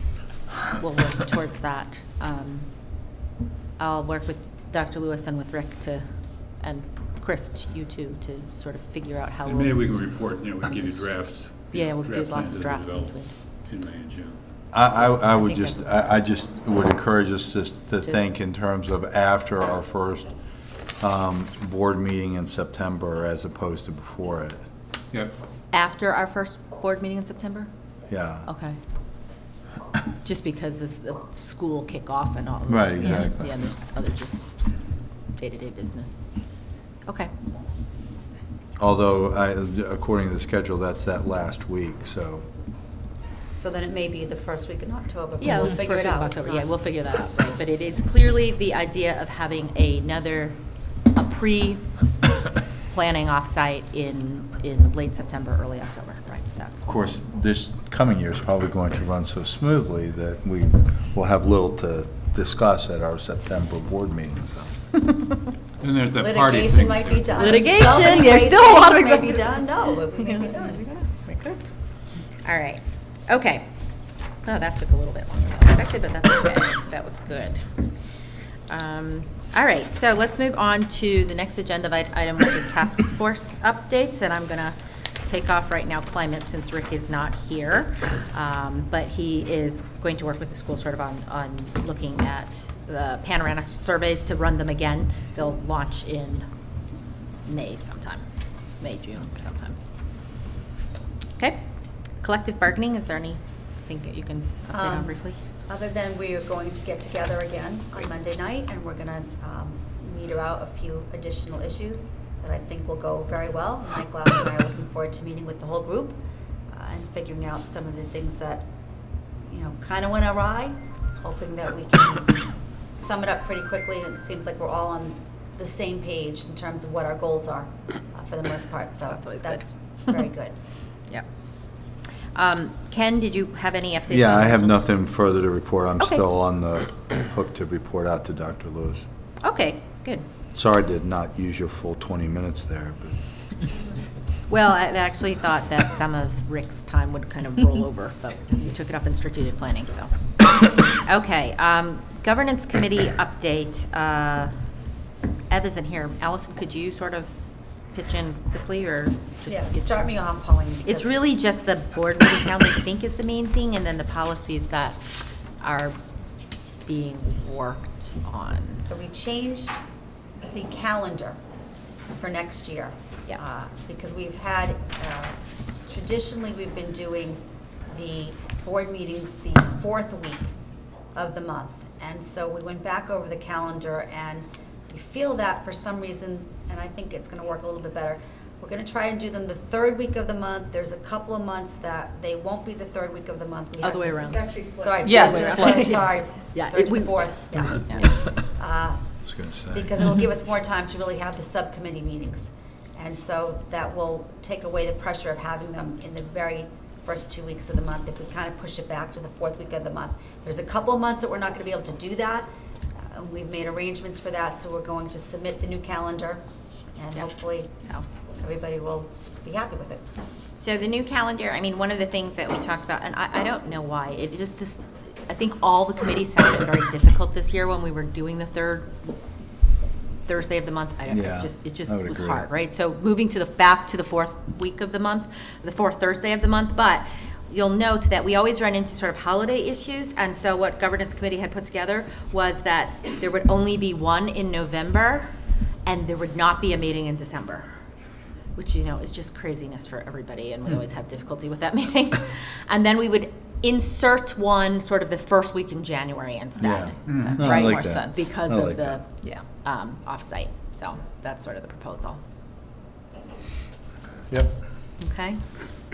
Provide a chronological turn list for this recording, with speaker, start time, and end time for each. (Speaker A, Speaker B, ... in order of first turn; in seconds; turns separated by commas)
Speaker A: 0.6-3.0, Speaker A: 3.8-9.9, Speaker B: 9.4-14.5, Speaker A: 10.7-11.0, Speaker A: 11.7-13.3, Speaker C: 14.7-20.3, Speaker A: 15.3-16.0, Speaker C: 21.0-24.6, Speaker A: 25.7-27.7, Speaker C: 28.1-28.5, Speaker A: 28.4-28.8, Speaker A: 30.2-34.8, Speaker C: 32.7-33.5, Speaker A: 35.3-36.2, Speaker A: 37.0-37.3, Speaker C: 38.8-42.5, Speaker D: 43.5-46.7, Speaker A: 45.4-50.6, Speaker A: 51.1-51.9, Speaker A: 52.9-57.1, Speaker C: 56.9-64.7, Speaker B: 65.8-68.0, Speaker D: 66.2-70.8, Speaker A: 67.3-71.6, Speaker A: 72.4-73.7, Speaker A: 74.4-77.7, Speaker A: 78.7-96.5, Speaker A: 97.4-98.3, Speaker A: 98.8-99.8, Speaker A: 101.4-101.6, Speaker A: 102.2-105.4, Speaker D: 104.7-116.2, Speaker D: 116.7-118.6, Speaker D: 119.5-130.5, Speaker A: 129.1-130.3, Speaker A: 132.3-134.8, Speaker C: 134.1-139.0, Speaker A: 136.0-136.2, Speaker A: 139.4-140.2, Speaker C: 140.5-143.2, Speaker A: 144.5-150.1, Speaker A: 151.0-154.5, Speaker A: 155.5-157.3, Speaker A: 157.9-160.1, Speaker D: 159.5-161.1, Speaker A: 160.8-165.0, Speaker A: 165.6-166.0, Speaker A: 166.8-168.8, Speaker D: 168.8-169.8, Speaker D: 170.5-171.4, Speaker D: 172.1-180.5, Speaker D: 181.1-199.0, Speaker A: 193.8-198.1, Speaker C: 199.2-200.1, Speaker D: 199.7-212.5, Speaker D: 213.1-216.4, Speaker D: 216.9-217.7, Speaker A: 217.1-218.1, Speaker D: 218.4-220.0, Speaker A: 220.6-229.0, Speaker A: 230.2-245.3, Speaker C: 231.1-232.4, Speaker A: 245.8-247.6, Speaker A: 248.6-262.2, Speaker C: 256.6-259.0, Speaker B: 257.1-257.5, Speaker A: 265.0-265.4